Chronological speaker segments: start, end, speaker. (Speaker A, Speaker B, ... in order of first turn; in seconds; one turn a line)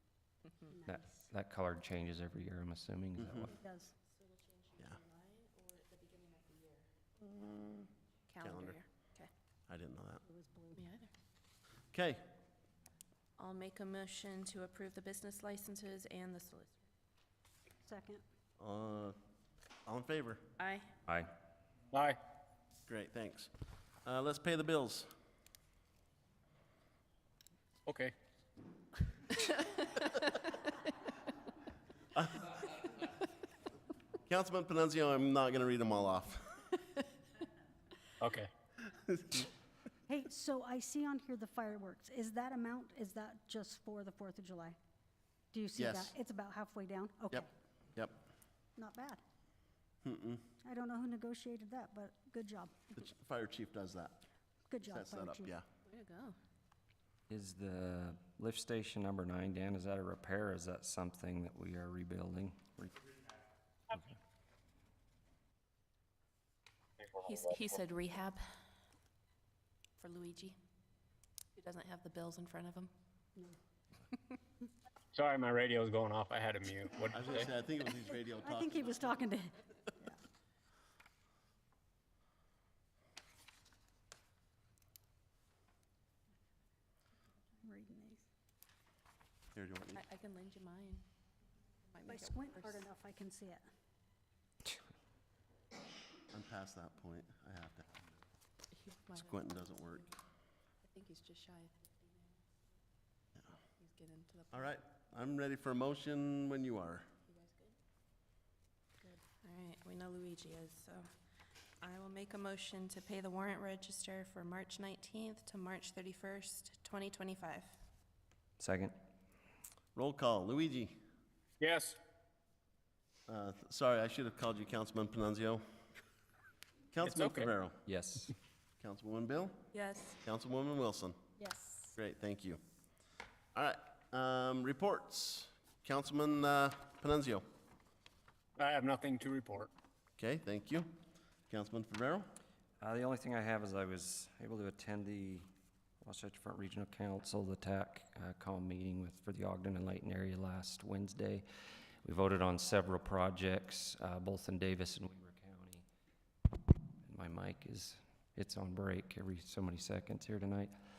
Speaker A: 0.7-1.1
Speaker B: 0.8-3.6
Speaker C: 3.2-3.5
Speaker A: 3.5-3.9
Speaker D: 5.0-6.5
Speaker C: 7.4-7.8
Speaker D: 8.3-9.3
Speaker C: 8.4-8.8
Speaker C: 9.7-10.2
Speaker A: 10.2-10.8
Speaker D: 10.8-11.1
Speaker C: 11.9-12.2
Speaker D: 13.4-16.9
Speaker A: 17.8-18.2
Speaker C: 18.6-19.1
Speaker C: 19.8-20.4
Speaker D: 20.6-20.9
Speaker E: 21.9-22.2
Speaker C: 22.9-23.5
Speaker C: 24.0-25.1
Speaker E: 27.9-28.1
Speaker D: 29.3-30.7
Speaker C: 32.1-32.7
Speaker C: 34.3-36.7
Speaker E: 38.2-38.5
Speaker C: 38.9-39.5
Speaker A: 40.1-44.8
Speaker A: 45.5-47.5
Speaker C: 45.8-46.1
Speaker C: 47.3-48.2
Speaker A: 48.8-49.2
Speaker C: 50.0-50.4
Speaker A: 50.6-52.9
Speaker C: 53.0-54.2
Speaker A: 54.7-55.5
Speaker C: 54.8-55.6
Speaker D: 55.8-56.4
Speaker B: 57.3-63.0
Speaker D: 67.2-68.4
Speaker D: 70.0-70.5
Speaker D: 71.5-72.9
Speaker E: 75.1-77.5
Speaker C: 77.1-79.2
Speaker A: 78.4-80.2
Speaker A: 87.6-88.2
Speaker C: 89.5-90.0
Speaker D: 89.9-91.0
Speaker D: 91.9-92.8
Speaker A: 92.0-93.7
Speaker C: 96.3-98.2
Speaker D: 98.8-99.3
Speaker C: 99.2-100.1
Speaker D: 100.8-102.2
Speaker D: 103.8-104.7
Speaker C: 104.5-107.1
Speaker D: 107.3-107.7
Speaker D: 109.0-111.1
Speaker D: 111.8-117.8
Speaker B: 118.6-118.9
Speaker C: 119.9-121.0
Speaker E: 121.6-122.0
Speaker C: 123.3-125.6
Speaker C: 126.9-127.8
Speaker E: 127.0-127.5
Speaker B: 127.8-128.3
Speaker C: 128.8-129.6
Speaker D: 129.7-130.2
Speaker C: 130.2-131.2
Speaker D: 131.4-132.0
Speaker C: 132.0-132.6
Speaker C: 133.5-137.4
Speaker E: 138.6-139.7
Speaker C: 140.2-140.9
Speaker C: 141.5-142.3
Speaker B: 142.8-145.5
Speaker B: 146.0-151.4
Speaker B: 152.0-155.8
Speaker B: 157.0-160.7